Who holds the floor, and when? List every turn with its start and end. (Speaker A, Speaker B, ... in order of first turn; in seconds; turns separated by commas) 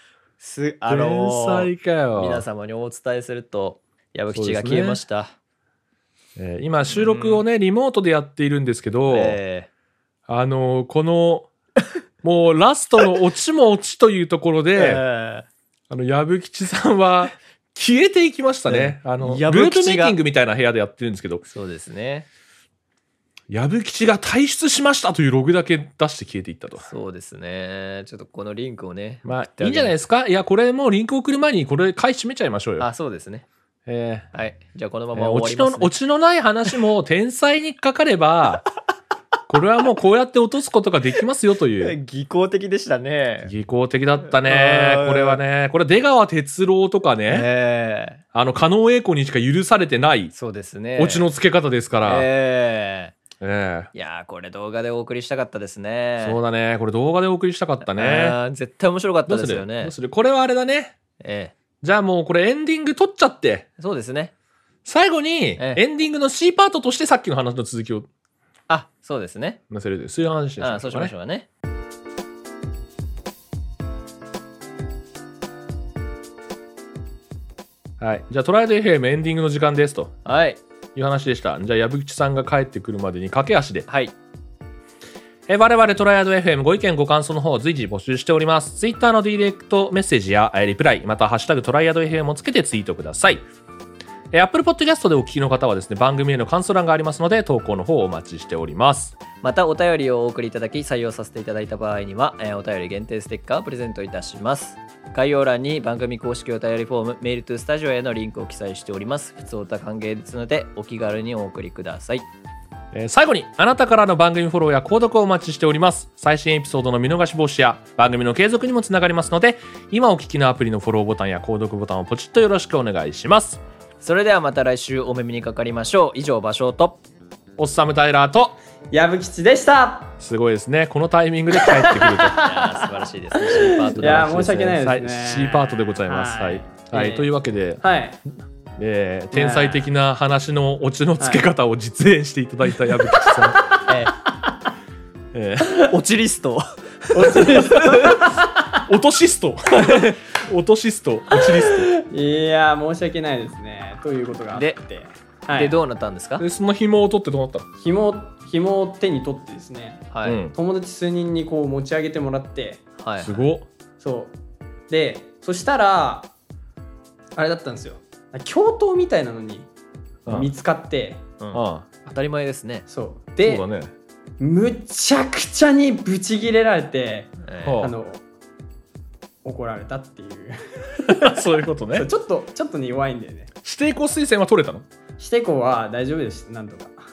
Speaker A: 0.4-5.3, Speaker B: 0.9-2.4, Speaker B: 4.3-5.0, Speaker B: 6.4-9.4, Speaker A: 6.9-7.4, Speaker A: 9.1-9.7, Speaker B: 10.3-11.5, Speaker B: 12.2-15.0, Speaker A: 14.7-15.5, Speaker B: 15.9-21.4, Speaker A: 18.7-20.1, Speaker A: 21.5-22.3, Speaker B: 23.5-26.9, Speaker A: 26.8-29.9, Speaker B: 29.2-32.9, Speaker A: 32.8-33.5, Speaker B: 33.9-34.3, Speaker A: 34.3-35.9, Speaker B: 35.1-38.6, Speaker B: 39.5-42.0, Speaker A: 41.8-43.5, Speaker B: 43.4-47.5, Speaker A: 44.4-45.4, Speaker A: 47.3-48.2, Speaker B: 48.3-50.3, Speaker A: 50.3-51.2, Speaker B: 51.0-52.3, Speaker A: 52.0-53.1, Speaker B: 53.4-53.9, Speaker A: 53.9-56.4, Speaker B: 56.2-58.4, Speaker A: 57.8-59.9, Speaker B: 59.3-61.0, Speaker A: 61.2-61.5, Speaker B: 61.8-63.7, Speaker A: 63.8-64.3, Speaker B: 64.8-68.1, Speaker A: 68.7-69.6, Speaker B: 69.7-71.1, Speaker A: 70.6-71.5, Speaker B: 78.0-80.2, Speaker A: 80.2-80.6, Speaker B: 80.9-83.9, Speaker A: 83.9-84.1, Speaker B: 85.5-93.4, Speaker B: 94.3-99.2, Speaker A: 99.4-112.3, Speaker B: 112.9-123.6, Speaker A: 124.0-127.0, Speaker B: 127.6-128.6, Speaker C: 128.9-130.1, Speaker B: 130.2-132.3, Speaker C: 131.5-137.2, Speaker A: 132.3-134.5, Speaker B: 134.0-137.8, Speaker C: 137.8-138.2, Speaker B: 138.8-143.6, Speaker C: 139.3-139.8, Speaker C: 141.2-141.4, Speaker A: 143.9-144.1, Speaker B: 145.3-145.9, Speaker A: 145.8-148.3, Speaker C: 147.1-148.6, Speaker B: 148.8-151.9, Speaker C: 151.6-155.8, Speaker A: 154.5-154.8, Speaker A: 155.5-156.4, Speaker B: 156.4-157.7, Speaker C: 157.8-162.8, Speaker A: 160.1-160.4, Speaker B: 160.2-160.5, Speaker A: 163.0-163.4, Speaker B: 163.2-163.7, Speaker C: 164.0-164.3, Speaker C: 164.9-166.3, Speaker C: 167.3-169.7, Speaker C: 170.3-171.2, Speaker A: 171.4-172.8, Speaker B: 171.5-171.9, Speaker C: 172.9-173.6, Speaker B: 173.4-173.9, Speaker C: 174.4-178.2, Speaker A: 177.4-177.8, Speaker B: 177.6-177.9, Speaker C: 179.4-183.5, Speaker B: 181.0-182.1, Speaker B: 183.6-184.8, Speaker C: 185.2-187.0